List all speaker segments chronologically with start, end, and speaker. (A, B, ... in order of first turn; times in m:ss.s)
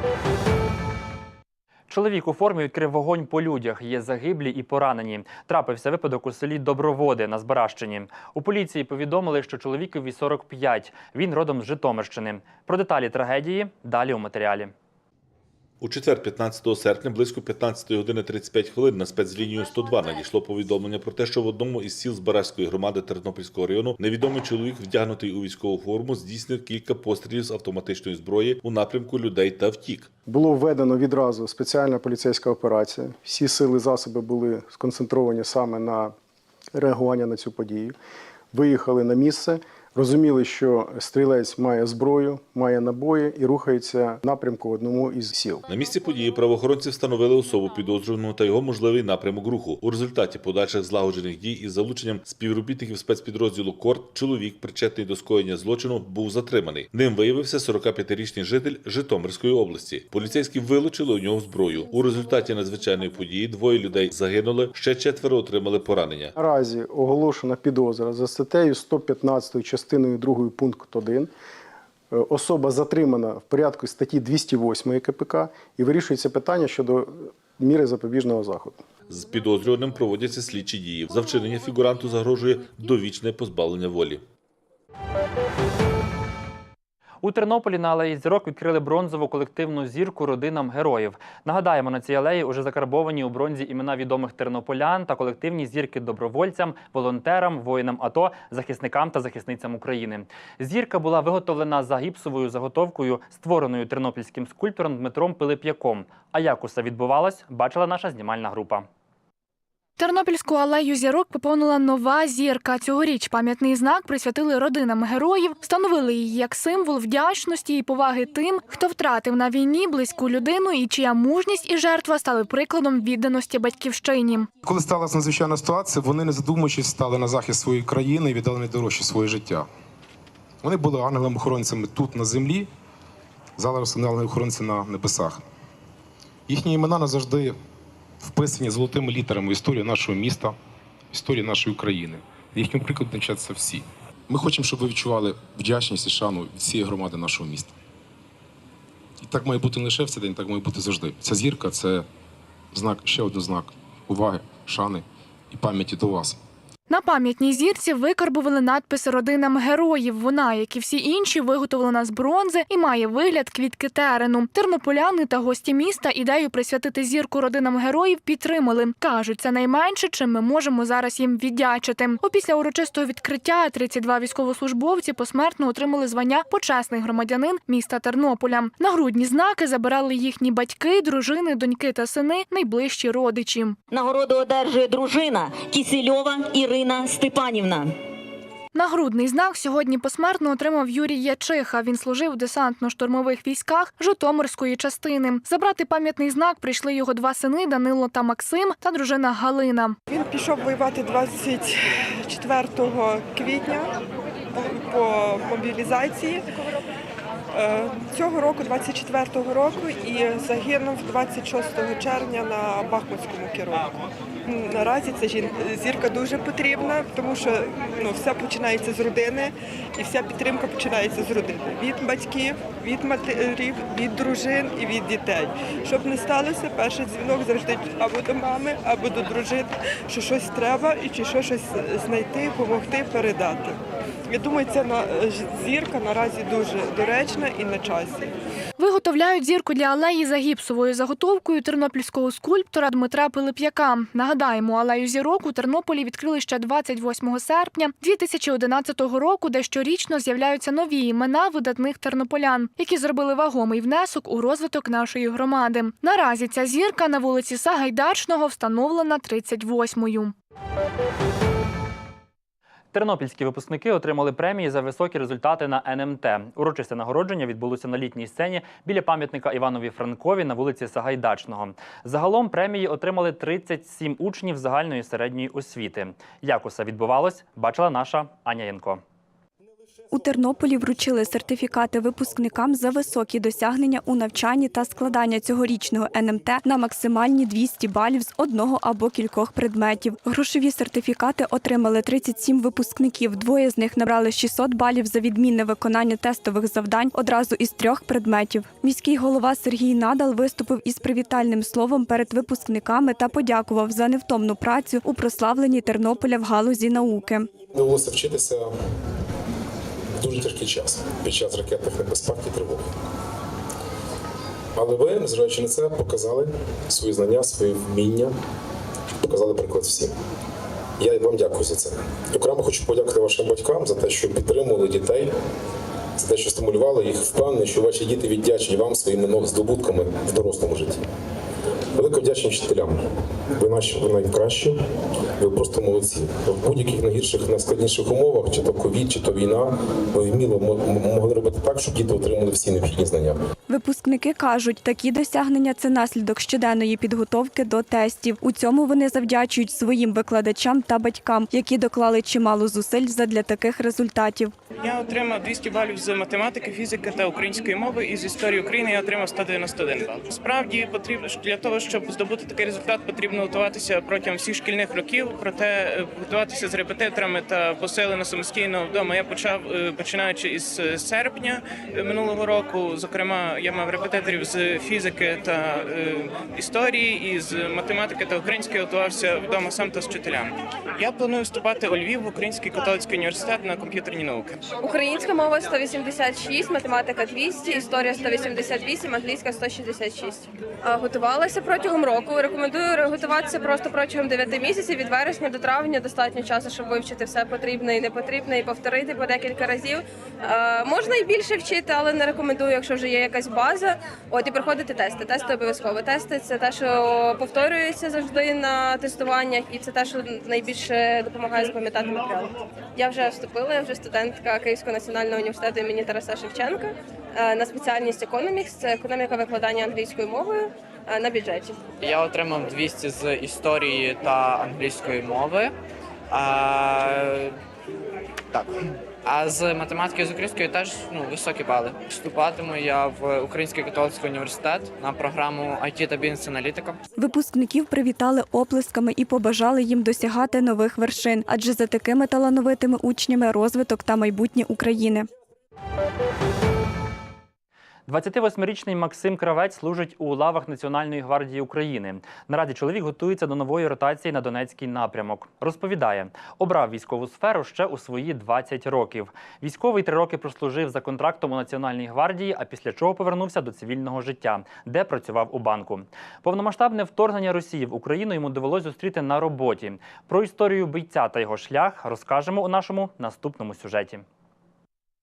0:01.9-0:14.7 A
0:15.8-0:30.1 B
0:30.3-0:36.1 C
0:36.7-0:38.0 C
0:38.5-0:45.6 C
0:45.7-1:06.3 B
1:06.4-1:11.3 C
1:12.1-1:18.8 C
1:19.1-1:24.2 B
1:27.2-1:48.9 A
1:50.0-2:04.5 D
2:04.6-2:09.7 E
2:10.6-2:12.7 E
2:13.6-2:15.4 E
2:16.5-2:17.6 E
2:18.2-2:20.6 E
2:21.1-2:27.7 E
2:29.2-2:32.0 E
2:32.7-2:36.4 E
2:36.9-3:03.8 D
3:03.9-3:07.9 F
3:08.7-3:20.0 D
3:20.1-3:23.9 G
3:24.5-3:26.5 G
3:27.5-3:33.9 G
3:34.5-3:58.2 G
3:58.8-4:20.3 D
4:22.9-4:39.0 A
4:40.1-5:07.5 H
5:07.7-5:08.7 E
5:10.2-5:12.9 E
5:14.7-5:18.3 E
5:19.2-5:20.1 E
5:21.0-5:25.3 E
5:26.2-5:31.0 E
5:31.9-5:33.0 E
5:33.6-5:34.8 E
5:35.4-5:43.4 E
5:43.7-5:54.5 H
5:54.8-6:24.6 I
6:24.8-7:01.9 J
7:02.0-7:05.7 K
7:06.3-7:07.6 K
7:08.5-7:17.0 K
7:17.2-7:25.3 H
7:28.1-7:54.2 A